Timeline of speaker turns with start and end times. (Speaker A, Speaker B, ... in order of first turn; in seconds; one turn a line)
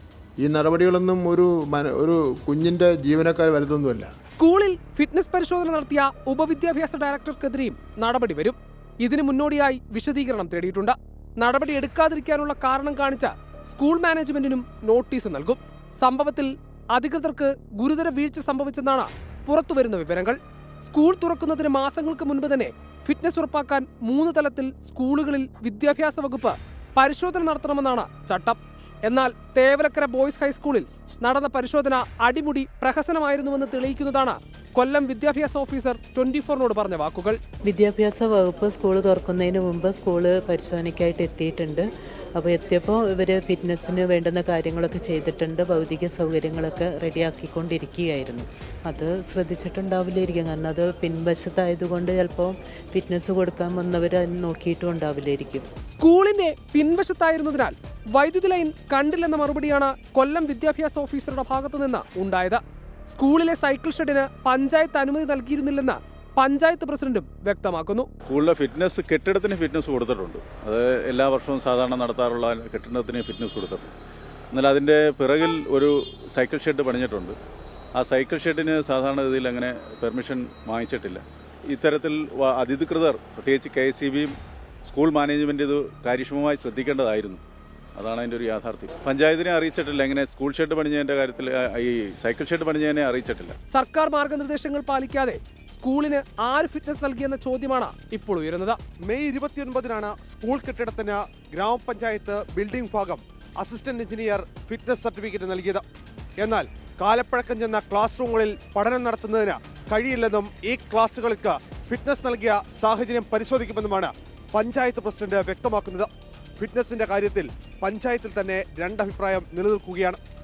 Speaker A: 0.4-4.1
Speaker B: 4.3-37.4
Speaker C: 37.6-41.9
Speaker C: 42.4-55.7
Speaker B: 55.9-68.1
Speaker D: 68.2-73.9
Speaker D: 74.5-77.4
Speaker D: 78.0-87.4
Speaker D: 88.0-93.5
Speaker B: 93.7-98.8
Speaker E: 99.1-105.8
Speaker E: 106.4-120.2